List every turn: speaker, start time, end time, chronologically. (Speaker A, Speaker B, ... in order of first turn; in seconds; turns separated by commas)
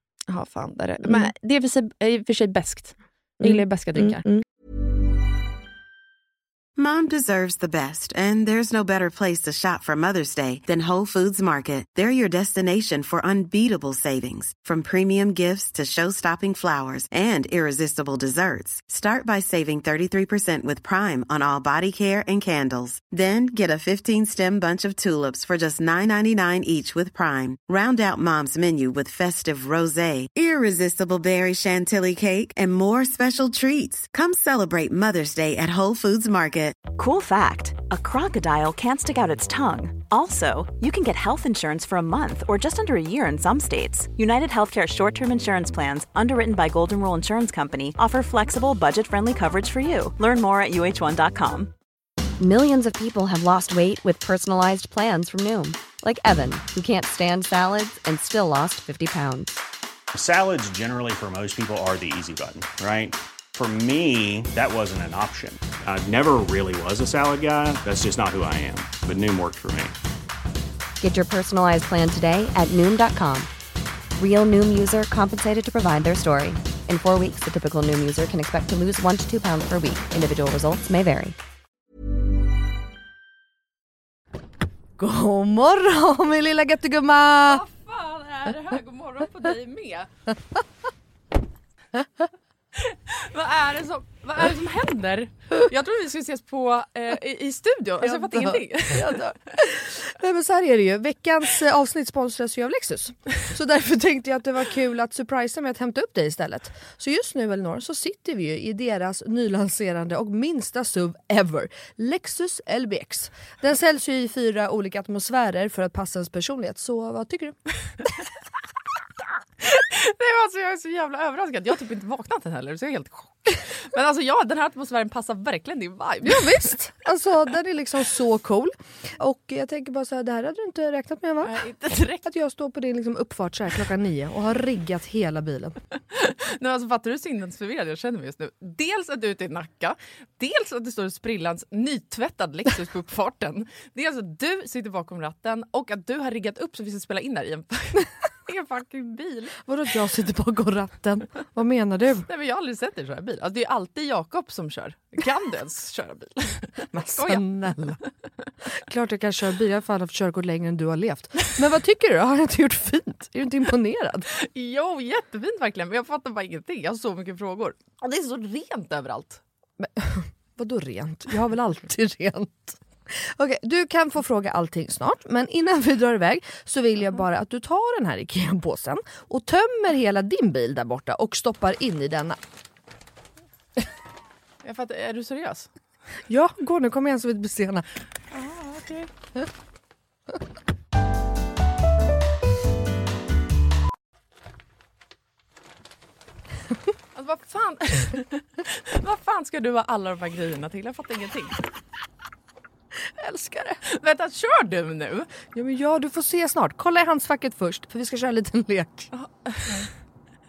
Speaker A: 0.3-4.2, Speaker B: 3.4-4.4, Speaker C: 6.8-36.8, Speaker D: 36.8-51.7, Speaker E: 52.4-59.6, Speaker F: 60.1-69.9, Speaker E: 71.0-73.5, Speaker E: 74.2-81.3, Speaker B: 85.0-87.6, Speaker A: 87.4-90.1, Speaker A: 92.8-99.2, Speaker B: 98.0-117.5, Speaker A: 119.6-126.7, Speaker B: 126.2-131.6, Speaker A: 131.4-132.2, Speaker B: 132.2-135.8, Speaker A: 136.1-149.6, Speaker B: 149.7-152.3, Speaker A: 152.3-157.4, Speaker B: 156.9-158.0, Speaker B: 158.8-164.3, Speaker A: 164.4-169.4, Speaker B: 169.8-182.4, Speaker A: 184.6-185.7, Speaker B: 186.3-187.8, Speaker A: 188.3-189.1, Speaker A: 197.1-201.6, Speaker B: 203.2-203.8, Speaker A: 203.8-205.4, Speaker B: 205.5-209.1, Speaker A: 209.1-209.9